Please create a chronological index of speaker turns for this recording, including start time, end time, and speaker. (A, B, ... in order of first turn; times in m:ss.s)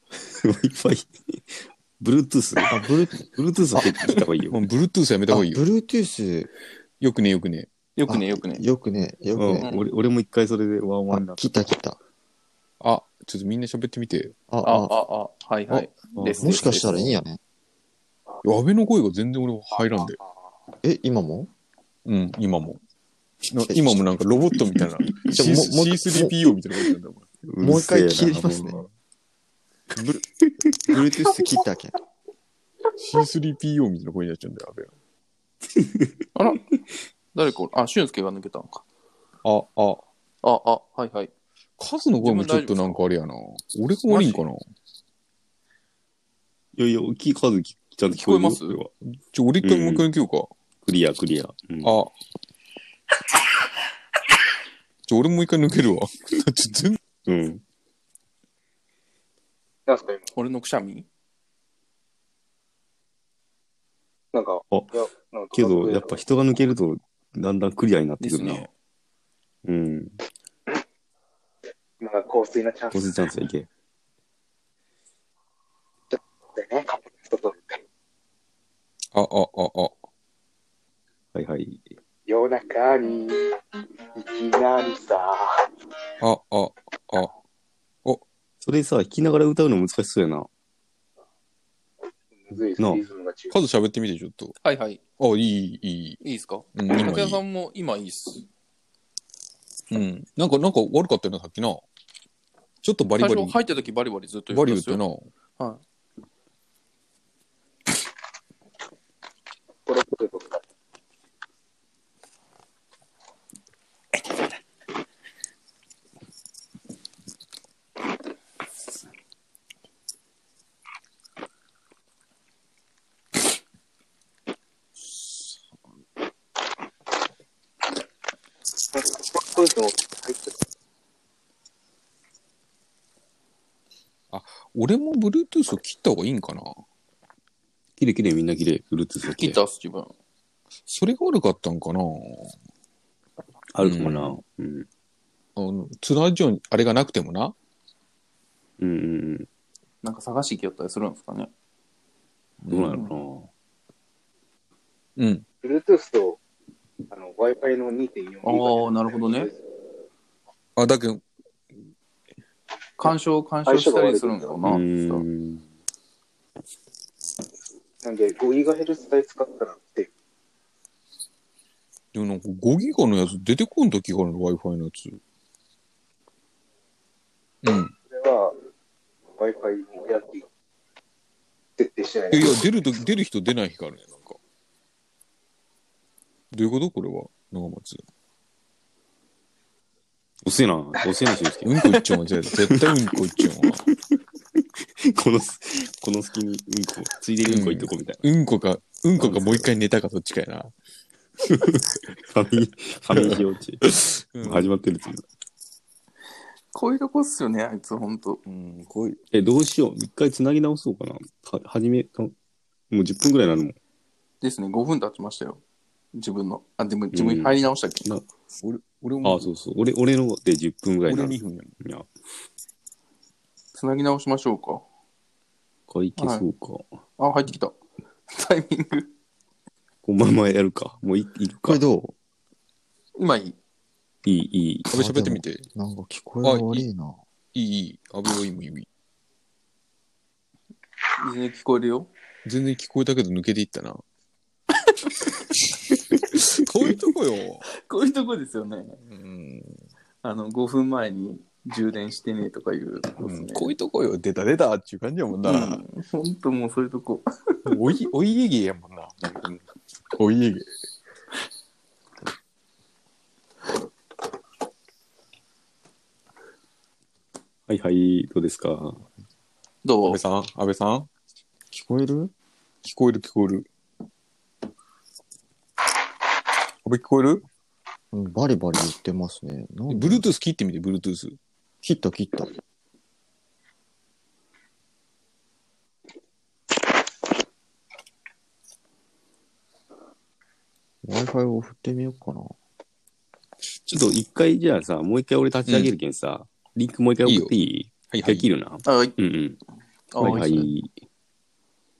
0:00.2-0:01.4 A
0:02.0-0:02.6 A
0:02.7-0:03.2 B
0:03.4-0:04.6 A
0:03.7-0:04.0 B
0:04.5-0:05.6 C
0:05.3-0:06.5 B
0:07.0-0:07.7 C
0:08.0-0:08.6 D
0:08.1-0:09.7 B
0:09.4-0:11.7 A
0:11.1-0:12.0 B
0:12.8-0:14.4 C
0:14.5-0:15.0 B
0:14.6-0:17.2 D
0:15.7-0:17.4 B
0:16.2-0:16.6 A
0:18.4-0:20.2 C
0:19.7-0:20.5 E
0:20.8-0:21.5 B
0:22.1-0:22.8 C
0:23.5-0:27.3 C
0:23.7-0:24.0 B
0:25.3-0:26.4 B
0:27.5-0:28.8 A
0:27.6-0:28.8 B
0:30.0-0:30.2 B
0:30.9-0:31.9 B
0:33.0-0:34.9 C
0:35.8-0:36.1 A
0:36.4-0:36.6 D
0:37.3-0:38.8 D
0:39.4-0:40.0 C
0:40.4-0:41.3 D
0:41.8-0:44.6 C
0:42.2-0:43.0 D
0:44.1-0:44.4 D
0:46.8-0:48.9 A
0:48.1-0:48.8 D
0:49.1-0:50.5 C
0:49.6-0:50.0 A
0:50.8-0:51.9 A
0:51.8-0:52.1 C
0:55.1-0:57.0 C
0:57.3-0:57.6 A
0:59.9-1:00.3 E
1:00.3-1:01.1 D
1:04.3-1:06.2 E
1:05.5-1:08.6 A
1:08.2-1:08.7 D
1:09.7-1:10.2 A
1:12.0-1:13.1 E
1:12.9-1:13.7 A
1:16.1-1:17.8 E
1:19.1-1:20.0 C
1:21.4-1:21.8 A
1:22.3-1:23.6 E
1:24.1-1:25.7 E
1:26.2-1:27.4 C
1:28.6-1:30.5 A
1:32.4-1:33.6 E
1:32.8-1:33.0 A
1:33.5-1:34.5 C
1:34.6-1:35.0 D
1:35.2-1:36.2 C
1:36.2-1:38.5 D
1:36.8-1:37.4 C
1:39.9-1:41.8 C
1:42.8-1:43.6 C
1:43.2-1:45.0 D
1:44.5-1:45.3 C
1:49.9-1:50.6 E
2:08.9-2:10.6 E
2:14.3-2:16.7 C
2:18.0-2:19.5 A
2:19.2-2:20.1 D
2:20.9-2:22.5 C
2:23.8-2:24.9 A
2:23.8-2:24.4 C
2:25.6-2:27.6 C
2:28.8-2:29.5 A
2:30.0-2:31.5 D
2:32.6-2:33.1 C
2:32.7-2:33.5 A
2:35.2-2:35.4 C
2:35.6-2:36.4 E
2:37.1-2:39.6 E
2:38.4-2:39.5 D
2:40.8-2:41.2 C
2:43.0-2:45.2 D
2:43.7-2:44.6 E
2:44.8-2:45.6 A
2:48.0-2:50.1 E
2:52.1-2:55.2 C
2:57.6-2:57.9 C
2:58.1-2:58.5 E
2:59.4-3:00.5 E
3:01.8-3:02.6 E
3:02.3-3:04.4 C
3:06.5-3:08.0 C
3:10.4-3:11.8 A
3:11.6-3:13.8 C
3:15.1-3:18.2 A
3:17.4-3:20.7 C
3:19.2-3:19.7 A
3:22.3-3:23.8 A
3:23.1-3:24.7 C
3:24.5-3:25.2 A
3:26.7-3:28.4 D
3:28.4-3:29.2 C
3:29.3-3:32.3 A
3:32.9-3:33.8 A
3:34.4-3:35.6 D
3:36.1-3:38.1 D
3:37.1-3:38.2 A
3:38.6-3:39.5 C
3:39.2-3:42.1 A
3:41.1-3:41.8 C
3:43.7-3:44.8 D
3:45.9-3:46.9 A
3:46.2-3:46.5 D
3:47.2-3:47.8 D
3:48.3-3:49.1 D
3:50.0-3:51.8 A
3:51.6-3:52.2 B
3:53.2-3:53.6 D
3:54.2-3:54.9 A
3:54.9-3:55.6 C
3:54.9-3:57.2 B
3:56.4-3:56.9 C
3:57.6-3:58.9 C
4:01.2-4:02.1 D
4:02.4-4:04.0 C
4:05.1-4:05.4 D
4:06.5-4:07.7 C
4:07.8-4:09.0 D
4:09.0-4:09.8 C
4:10.2-4:13.8 D
4:13.2-4:15.8 C
4:15.4-4:17.3 D
4:17.7-4:19.6 C
4:20.2-4:20.7 C
4:27.7-4:29.0 A
4:29.8-4:30.2 D
4:30.0-4:31.1 C
4:31.7-4:32.3 B
4:32.8-4:33.7 C
4:36.8-4:37.4 C
4:38.1-4:40.3 B
4:39.9-4:41.4 C
4:41.8-4:42.5 B
4:51.0-4:52.5 B
4:53.9-4:59.6 A
4:55.7-4:56.0 C
4:57.2-4:57.6 C
4:58.1-4:58.5 C
4:58.9-4:59.2 D
5:00.1-5:00.4 D
5:00.2-5:00.7 C
5:00.3-5:00.9 A